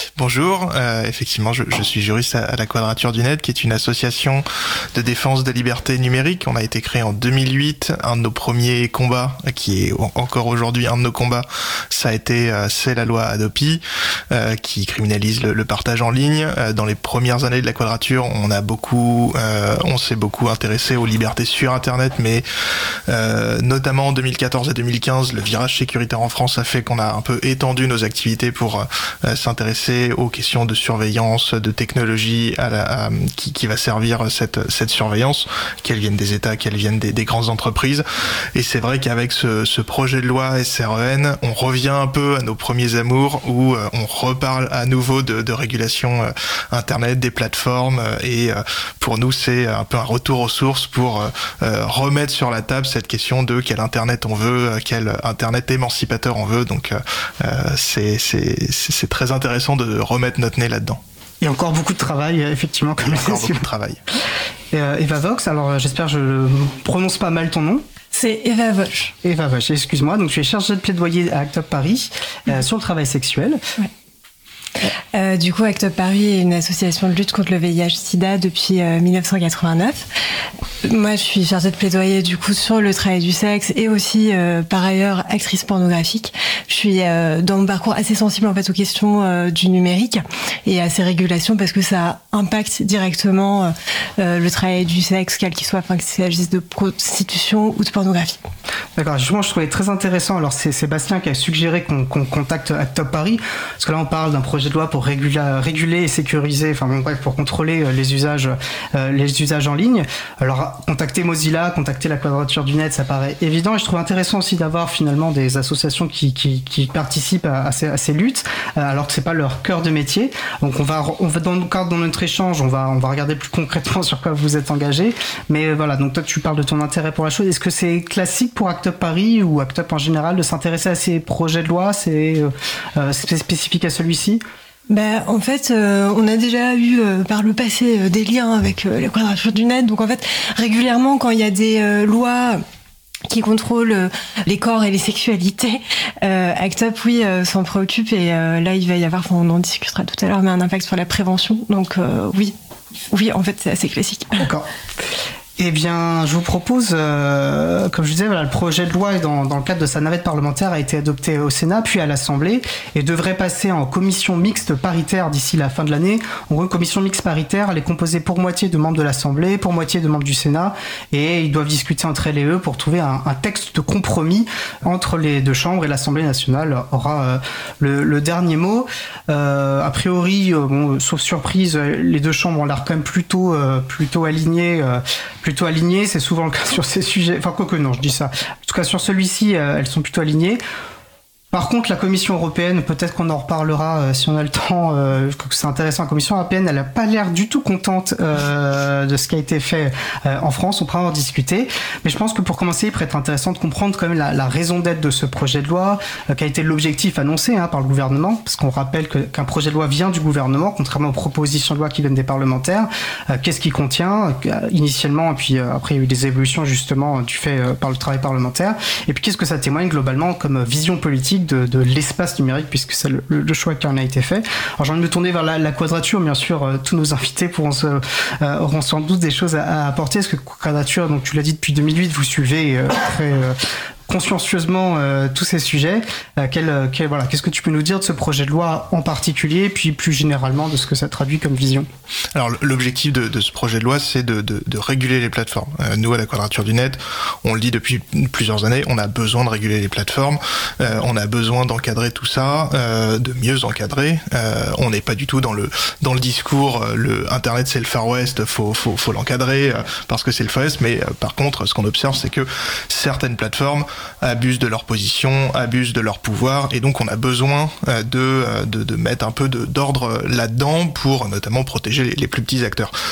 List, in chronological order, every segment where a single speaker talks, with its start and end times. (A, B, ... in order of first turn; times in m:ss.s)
0:00.2-0:22.4 A
0:23.1-0:38.0 A
0:38.6-1:01.0 A
1:01.4-1:03.6 B
1:03.0-1:04.0 A
1:04.7-1:07.8 B
1:08.1-1:09.1 C
1:09.2-1:13.6 B
1:15.1-1:20.1 C
1:20.8-1:38.4 C
1:39.0-2:14.4 B
2:14.9-2:22.6 C
2:23.3-2:32.6 C
2:33.1-2:34.4 C
2:34.4-2:34.7 B
2:35.6-3:10.6 B
3:11.5-3:53.6 B
3:54.1-4:01.9 B
4:02.3-4:32.9 A